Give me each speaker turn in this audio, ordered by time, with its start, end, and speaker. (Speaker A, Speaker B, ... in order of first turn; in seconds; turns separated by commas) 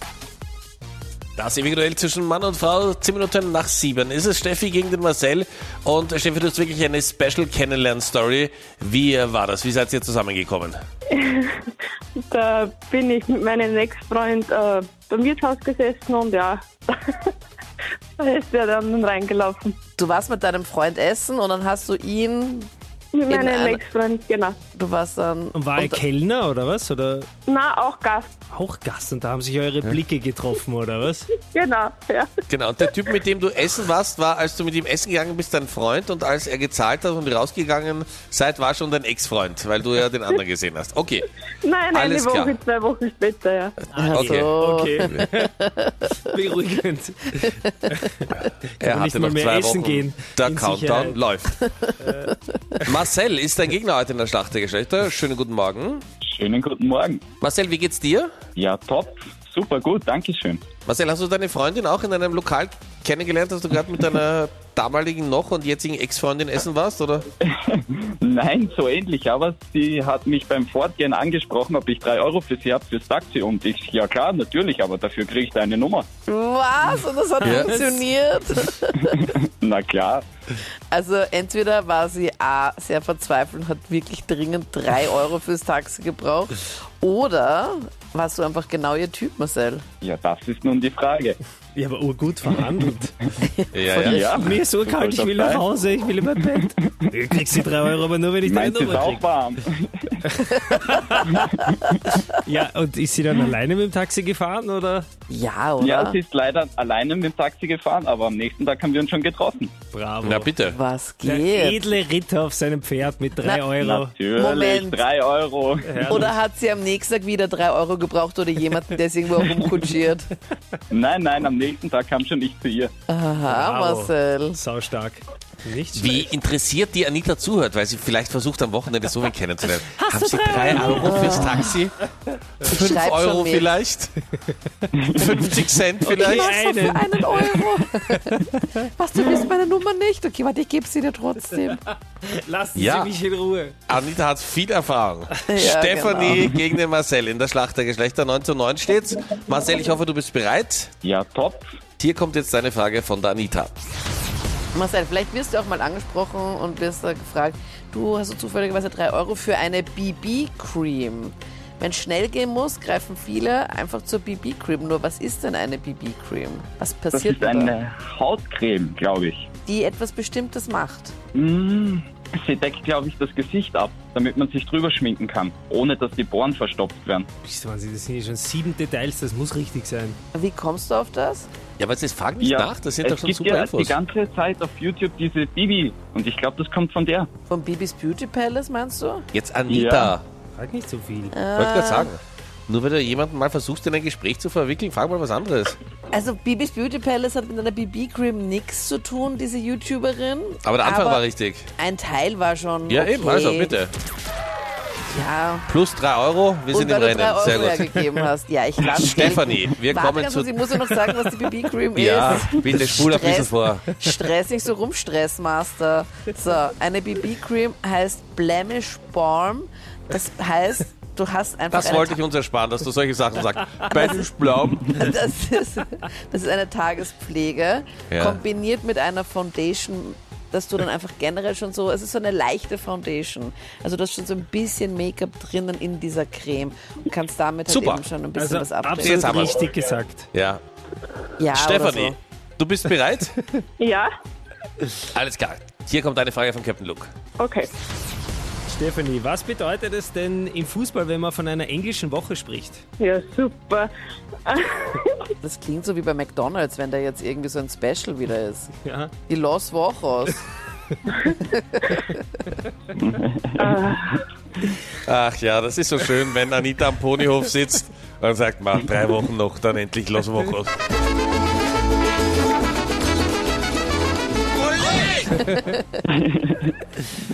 Speaker A: 1.4-10.8, Speaker B: 11.1-11.7, Speaker B: 12.3-17.3, Speaker B: 18.2-19.7, Speaker C: 20.0-22.7, Speaker B: 23.1-24.6, Speaker C: 23.3-23.8, Speaker C: 24.7-26.0, Speaker D: 25.5-27.3, Speaker B: 27.5-28.3, Speaker D: 28.5-31.3, Speaker B: 31.5-32.3, Speaker A: 32.5-41.3, Speaker B: 41.6-43.8, Speaker A: 41.9-42.5, Speaker D: 43.9-45.5, Speaker C: 44.0-46.1, Speaker A: 44.0-44.5, Speaker D: 46.2-51.2, Speaker A: 48.8-51.6, Speaker D: 52.0-52.3, Speaker A: 52.8-56.0, Speaker E: 56.2-57.2, Speaker A: 57.4-58.3, Speaker E: 58.5-60.6, Speaker A: 60.9-67.2, Speaker E: 67.4-76.1, Speaker C: 76.3-79.3, Speaker D: 77.4-78.1, Speaker A: 77.4-77.7, Speaker E: 79.2-80.2, Speaker C: 80.9-89.8, Speaker E: 90.0-91.4, Speaker D: 91.7-93.2, Speaker C: 93.4-94.4, Speaker A: 93.7-94.2, Speaker D: 94.0-99.2, Speaker E: 94.0-95.6, Speaker E: 98.4-100.2, Speaker D: 100.3-101.5, Speaker E: 101.2-101.5, Speaker D: 102.1-105.1, Speaker C: 105.3-106.2, Speaker E: 105.8-109.7, Speaker D: 109.9-110.5, Speaker A: 110.2-110.8, Speaker C: 110.7-111.8, Speaker D: 111.2-114.1, Speaker E: 113.7-116.3, Speaker C: 114.3-115.0, Speaker D: 115.8-116.3, Speaker C: 116.1-120.3, Speaker E: 120.9-122.9, Speaker C: 123.1-124.6, Speaker D: 123.5-126.3, Speaker A: 125.9-131.9, Speaker D: 130.0-131.5, Speaker C: 130.5-131.8, Speaker A: 132.6-134.1, Speaker C: 132.7-133.7, Speaker E: 135.0-135.4, Speaker A: 135.2-136.6, Speaker D: 136.0-138.7, Speaker C: 136.1-141.8, Speaker D: 141.7-143.8, Speaker A: 142.8-143.1, Speaker A: 143.9-150.9, Speaker C: 145.5-146.5, Speaker E: 151.0-151.7, Speaker A: 152.0-153.7, Speaker C: 154.7-167.7, Speaker E: 167.1-169.5, Speaker C: 169.7-171.1, Speaker E: 171.3-177.3, Speaker D: 177.4-180.2, Speaker C: 180.3-181.5, Speaker A: 181.8-183.9, Speaker E: 182.4-187.3, Speaker C: 187.5-189.2, Speaker A: 189.3-190.2, Speaker E: 189.7-190.1, Speaker D: 190.6-191.4, Speaker C: 191.3-192.1, Speaker A: 191.6-195.8, Speaker C: 196.1-201.2, Speaker A: 200.6-201.7, Speaker C: 201.8-203.8, Speaker A: 202.9-203.9, Speaker C: 205.1-205.7, Speaker A: 205.7-207.9, Speaker C: 206.7-222.2, Speaker A: 208.9-211.1, Speaker A: 211.9-213.9, Speaker A: 221.7-225.0, Speaker C: 224.9-239.6, Speaker A: 228.1-228.4, Speaker A: 237.7-238.0, Speaker D: 238.4-240.3, Speaker A: 239.0-239.6, Speaker A: 240.3-240.6, Speaker C: 241.4-242.2, Speaker A: 241.5-243.3, Speaker B: 243.8-244.1, Speaker A: 245.1-247.1, Speaker B: 247.4-247.7, Speaker D: 248.7-252.8, Speaker B: 253.0-253.9, Speaker B: 254.4-255.1, Speaker C: 255.4-258.7, Speaker D: 258.8-259.1, Speaker C: 259.3-260.4, Speaker C: 261.2-262.2, Speaker E: 262.9-264.2, Speaker B: 263.6-264.2, Speaker A: 265.0-270.7, Speaker E: 276.1-276.7